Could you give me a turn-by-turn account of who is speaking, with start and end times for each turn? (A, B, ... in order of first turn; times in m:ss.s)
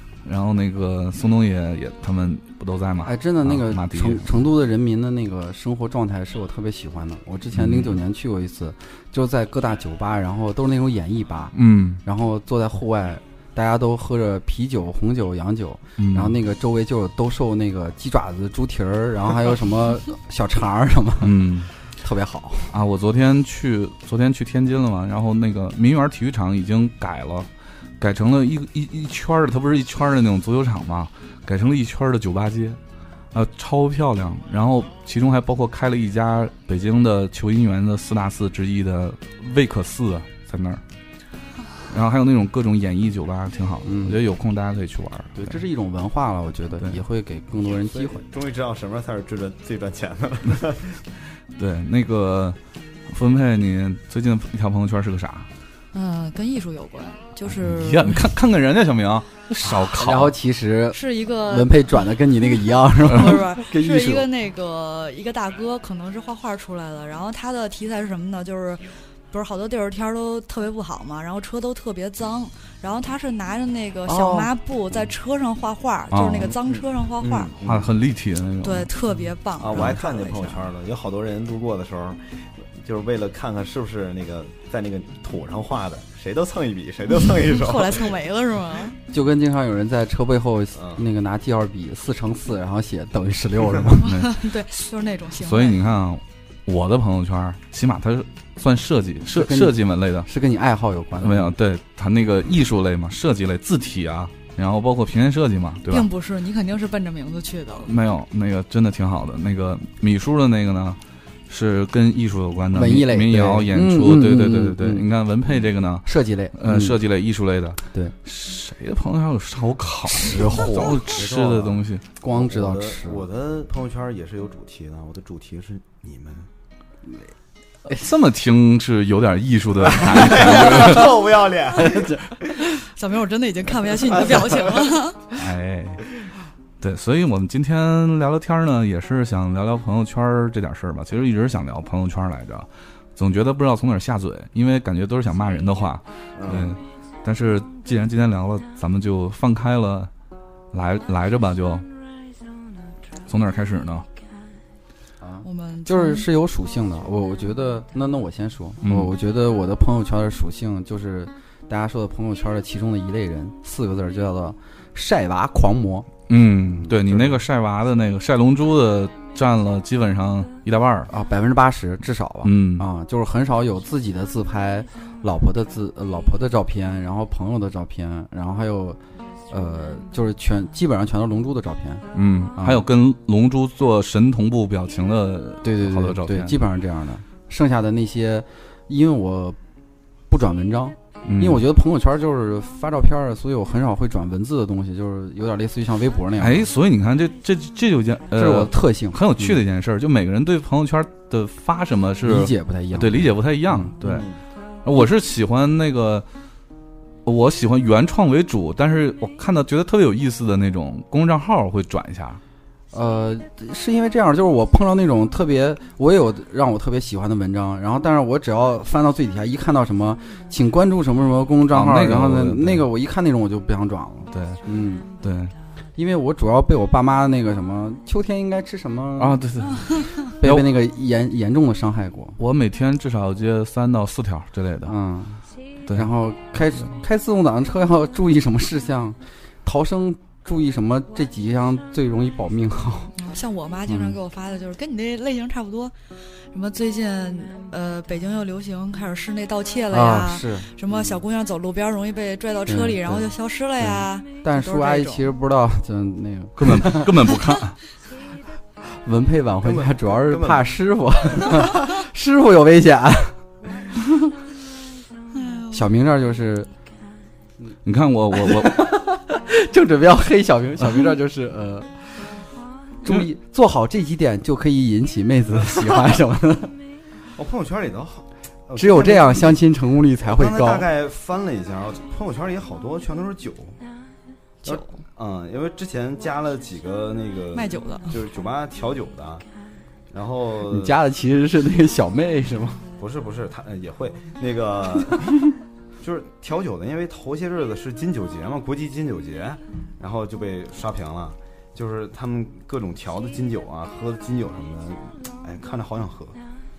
0:00.2-0:04.3 A
0:03.0-0:22.8 B
0:07.5-0:08.0 A
0:11.5-0:12.0 A
0:16.0-0:16.4 A
0:21.2-0:21.7 A
0:22.7-0:27.5 A
0:28.0-0:32.8 A
0:33.3-0:40.8 A
0:41.9-0:45.6 A
0:43.8-0:44.2 B
0:45.4-0:48.2 B
0:47.7-0:51.0 C
0:51.6-0:52.6 A
0:53.1-0:55.5 A
0:55.9-0:58.3 D
0:57.5-1:00.4 A
0:59.9-1:04.3 B
1:00.9-1:02.0 D
1:03.0-1:17.5 D
1:14.1-1:14.5 B
1:16.1-1:16.6 A
1:16.6-1:17.9 C
1:17.6-1:18.9 A
1:18.6-1:20.6 D
1:19.6-1:28.2 C
1:27.4-1:29.0 D
1:29.1-1:34.1 B
1:30.8-1:31.0 C
1:34.0-1:35.8 D
1:34.0-1:34.4 A
1:35.4-1:40.3 A
1:39.3-1:41.5 B
1:41.2-1:46.1 A
1:45.9-1:47.9 D
1:47.9-2:02.0 A
1:52.7-1:55.0 B
1:56.0-1:57.0 B
2:00.1-2:01.0 B
2:00.9-2:01.8 C
2:02.2-2:03.2 B
2:02.3-2:06.5 C
2:07.9-2:11.2 A
2:09.9-2:12.3 C
2:11.9-2:12.2 B
2:12.8-2:15.2 D
2:14.2-2:14.6 C
2:15.3-2:16.1 A
2:16.8-2:30.1 A
2:26.4-2:26.8 C
2:30.7-2:31.8 A
2:33.3-2:34.1 A
2:35.2-2:46.1 B
2:35.4-2:36.3 D
2:38.8-2:39.1 A
2:46.3-2:51.1 A
2:46.7-2:47.4 B
2:51.1-2:59.0 B
2:52.4-2:52.9 A
2:59.5-3:02.0 B
3:02.1-3:06.6 A
3:02.6-3:02.8 B
3:05.6-3:09.6 B
3:10.3-3:16.7 B
3:11.3-3:11.6 A
3:16.4-3:24.3 A
3:18.3-3:19.6 B
3:22.2-3:24.0 B
3:24.0-3:24.4 C
3:24.8-3:26.2 A
3:27.2-3:32.4 A
3:32.9-3:45.1 B
3:41.7-3:42.9 A
3:44.3-3:44.6 A
3:45.2-3:45.5 A
3:46.0-3:49.4 B
3:49.2-3:50.7 A
3:50.4-3:52.4 B
3:52.4-3:54.9 A
3:54.8-3:55.4 B
3:55.9-4:03.1 B
4:03.2-4:05.9 D
4:03.9-4:04.2 B
4:06.5-4:15.3 D
4:09.9-4:10.7 B
4:10.9-4:11.2 C
4:12.7-4:13.3 B
4:13.8-4:17.2 B
4:16.6-4:17.8 A
4:19.0-4:23.4 B
4:19.6-4:20.8 C
4:21.4-4:21.7 C
4:25.3-4:25.9 D
4:25.7-4:26.7 B
4:27.8-4:28.9 A
4:28.4-4:32.3 B
4:33.0-4:36.7 B
4:37.4-4:39.6 C
4:38.8-4:40.9 B
4:40.2-4:43.8 C
4:44.6-4:49.4 C
4:47.5-4:48.2 D
4:50.1-4:51.0 C
4:50.7-4:52.8 B
4:53.0-4:55.4 C
4:56.0-5:06.4 C